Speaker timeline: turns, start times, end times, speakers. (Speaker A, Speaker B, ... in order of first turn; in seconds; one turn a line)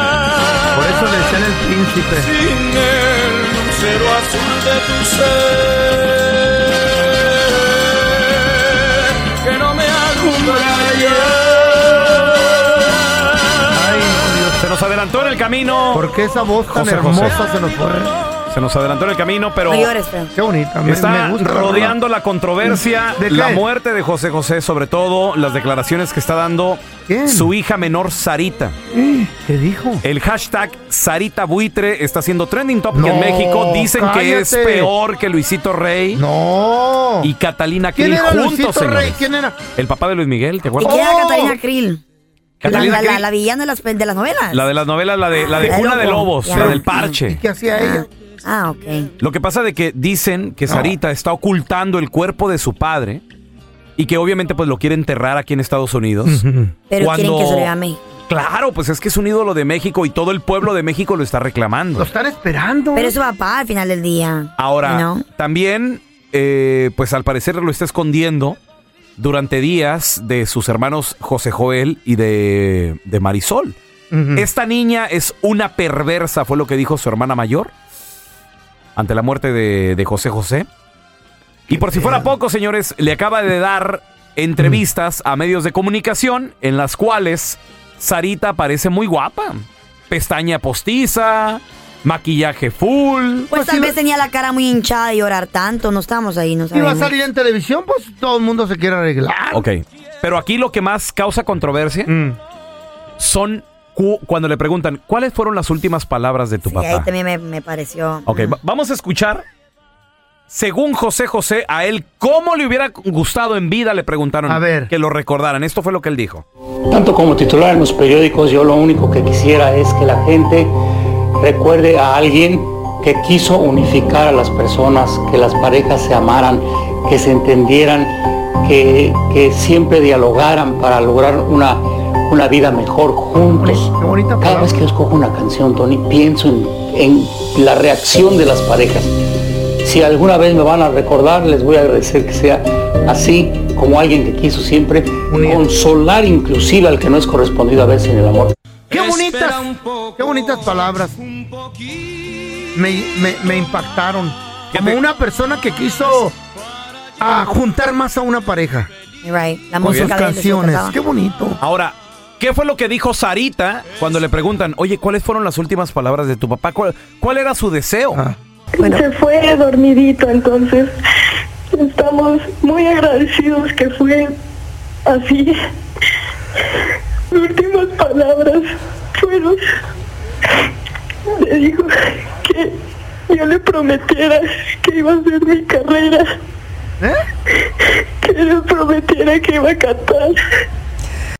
Speaker A: 0.7-2.4
Speaker B: 3.5-5.3
Speaker B: 9.7-10.9
Speaker A: 10.3-11.3
Speaker A: 13.7-14.6
Speaker C: 14.6-16.1
Speaker A: 15.9-18.2
Speaker C: 16.7-17.4
Speaker C: 18.5-19.9
Speaker D: 19.7-20.3
Speaker A: 20.3-22.0
Speaker C: 20.9-28.8
Speaker A: 22.6-23.6
Speaker A: 27.1-27.5
Speaker A: 28.9-30.0
Speaker C: 30.0-36.2
Speaker A: 32.9-34.9
Speaker A: 36.1-37.3
Speaker C: 37.2-39.2
Speaker A: 37.9-39.6
Speaker C: 39.7-41.0
Speaker D: 40.8-42.0
Speaker A: 40.8-41.6
Speaker C: 42.6-43.2
Speaker A: 42.6-43.2
Speaker D: 42.6-44.6
Speaker C: 44.5-47.4
Speaker D: 45.6-47.1
Speaker A: 46.5-48.1
Speaker D: 47.7-49.1
Speaker C: 49.2-53.2
Speaker A: 50.7-51.0
Speaker C: 54.0-56.4
Speaker A: 56.2-56.7
Speaker D: 56.9-58.0
Speaker C: 57.0-57.7
Speaker C: 58.3-62.1
Speaker A: 62.0-63.1
Speaker D: 62.9-65.2
Speaker C: 64.6-68.6
Speaker C: 69.2-73.8
Speaker A: 74.1-74.5
Speaker C: 74.3-77.7
Speaker C: 79.0-80.7
Speaker C: 81.7-93.5
Speaker A: 81.7-82.3
Speaker D: 93.5-97.1
Speaker A: 93.5-94.0
Speaker A: 96.7-99.6
Speaker C: 99.5-102.1
Speaker A: 102.1-102.4
Speaker C: 103.2-107.1
Speaker D: 106.7-108.5
Speaker C: 108.2-109.4
Speaker C: 110.5-116.4
Speaker A: 114.5-114.9
Speaker E: 116.9-120.7
Speaker E: 121.4-148.5
Speaker A: 133.4-134.8
Speaker A: 145.3-145.6
Speaker A: 148.9-151.2
Speaker A: 152.7-156.3
Speaker C: 154.7-155.0
Speaker A: 157.2-158.9
Speaker D: 159.2-160.9
Speaker A: 159.8-161.6
Speaker C: 159.8-160.1
Speaker C: 161.6-168.2
Speaker F: 168.8-170.9
Speaker F: 171.7-174.4
Speaker F: 175.1-175.6
Speaker F: 177.3-179.6
Speaker F: 181.4-182.8
Speaker F: 183.3-186.3
Speaker F: 188.2-190.4